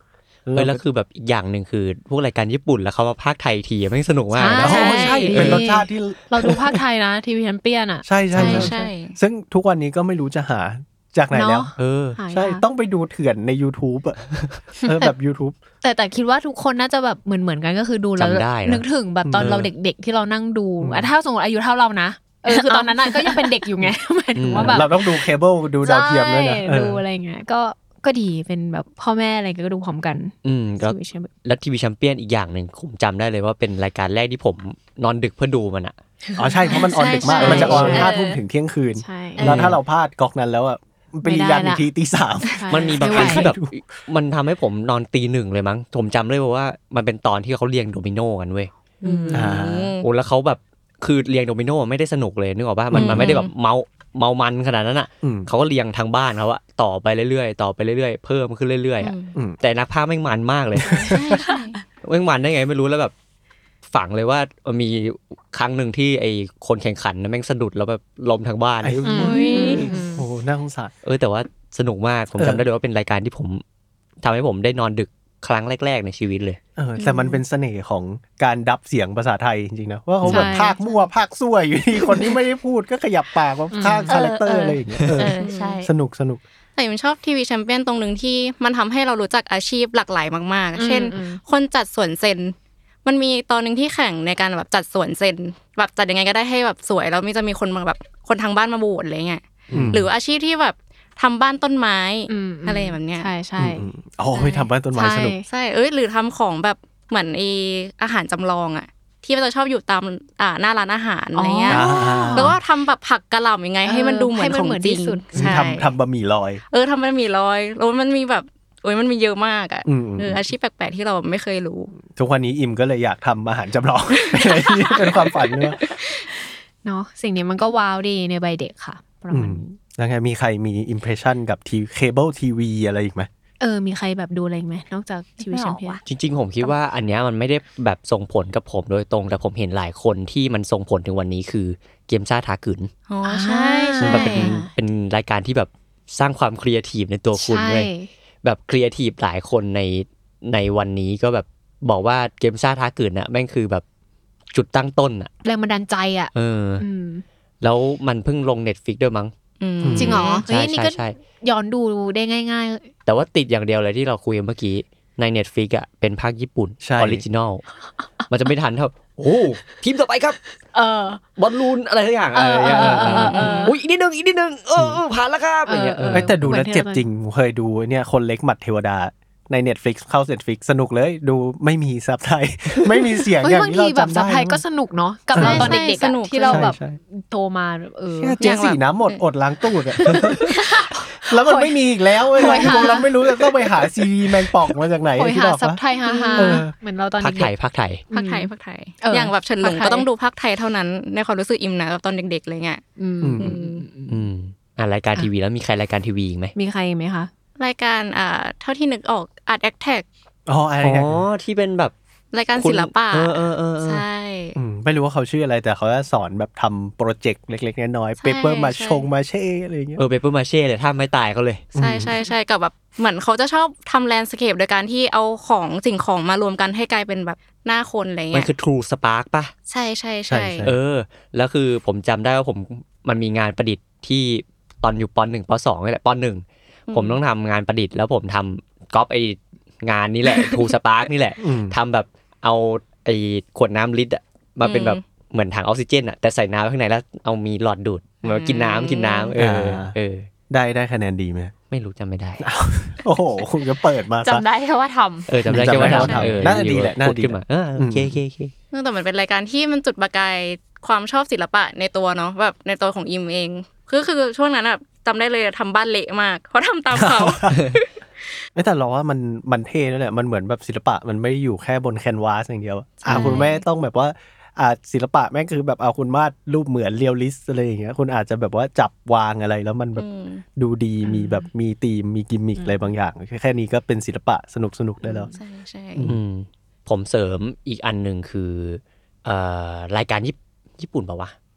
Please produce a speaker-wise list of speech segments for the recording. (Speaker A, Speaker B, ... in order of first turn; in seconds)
Speaker A: 0.5-0.8, 4.5-6.8, 8.0-11.7, 12.3-15.6, 19.2-19.7, 20.8-21.1, 24.5-27.0, 36.4-43.7, 49.3-49.9, 52.9-53.4, 55.2-55.5, 60.8-61.4, 68.8-70.9, 72.4-72.6, 76.8-86.4, 99.7-100.1, 103.6-105.4, 111.7-112.6, 115.3-116.6, 119.8-120.5, 122.0-125.8, 129.3-133.3, 159.8-160.3, 166.8-167.2, 176.1-184.6, 185.3-185.8, 186.5-187.0, 188.1-190.6, 191.2-195.8, 196.3-196.7, 203.2-203.6, 210.5-211.2, 214.6-220.0, 221.7-222.1, 230.3-230.8, 241.4-241.8, 249.3-249.9, 250.5-251.5, 252.4-254.4, 255.4-258.1, 266.9-267.6, 268.5-285.3
Speaker B: 0.5-5.7, 8.3-8.6, 11.8-12.2, 18.2-18.8, 19.4-19.7, 24.4-24.9, 30.4-35.9, 37.4-38.0, 39.4-39.8, 42.7-48.7, 50.0-61.0, 62.0-63.1, 63.9-69.3, 71.0-73.6, 74.2-76.6, 136.1-142.9, 144.0-147.9, 148.4-153.8, 154.5-155.3, 156.3-156.8, 157.6-159.3, 160.2-161.1, 163.1-167.6, 168.3-170.4, 171.4-176.3, 197.2-198.0, 204.1-206.5, 210.8-211.9, 212.6-214.0, 220.0-221.7, 228.3-229.5, 230.6-250.3, 251.7-252.4, 255.3-258.5, 286.0-291.3
Speaker C: 4.3-8.9, 11.3-12.6, 14.9-15.1, 15.8-25.3, 25.8-31.3, 36.5-38.1, 39.0-39.5, 41.2-41.9, 42.5-43.5, 49.0-49.6, 69.0-70.2, 80.2-80.8, 83.7-84.1, 90.7-91.4, 102.3-103.9, 104.9-105.4, 111.3-112.5, 113.8-115.6, 126.8-129.8, 133.6-136.0, 143.2-144.7, 147.3-148.1, 155.4-157.2, 159.9-162.9, 170.7-171.2, 172.3-173.7, 175.7-177.0, 183.4-188.4, 190.0-191.7, 192.3-193.1, 195.2-197.5, 198.1-200.1, 203.0-204.3, 206.6-207.3, 281.1-281.4, 282.6-282.9, 285.1-285.3
Speaker D: 4.7-5.3, 8.3-9.2, 49.0-50.0, 52.9-53.5, 59.0-59.3, 60.9-61.8, 69.1-69.9, 77.0-77.4, 85.4-85.8, 86.8-103.3, 104.3-104.6, 105.5-115.9, 116.7-121.9, 124.3-126.2, 143.1-144.6, 159.6-160.4, 172.8-173.7, 185.3-186.7, 188.4-189.2, 192.6-192.9, 196.1-196.6, 198.1-202.8, 203.4-203.8, 207.6-210.1, 212.3-214.6, 218.2-219.1, 221.8-228.5, 229.7-230.7, 236.9-237.2, 240.3-240.6, 244.6-245.0, 248.2-249.3, 255.7-256.3, 258.7-267.9, 273.0-273.6, 279.9-280.4, 285.3-286.1
Speaker E: 22.5-23.6, 37.4-38.4, 84.1-85.9, 135.4-136.0, 254.2-255.3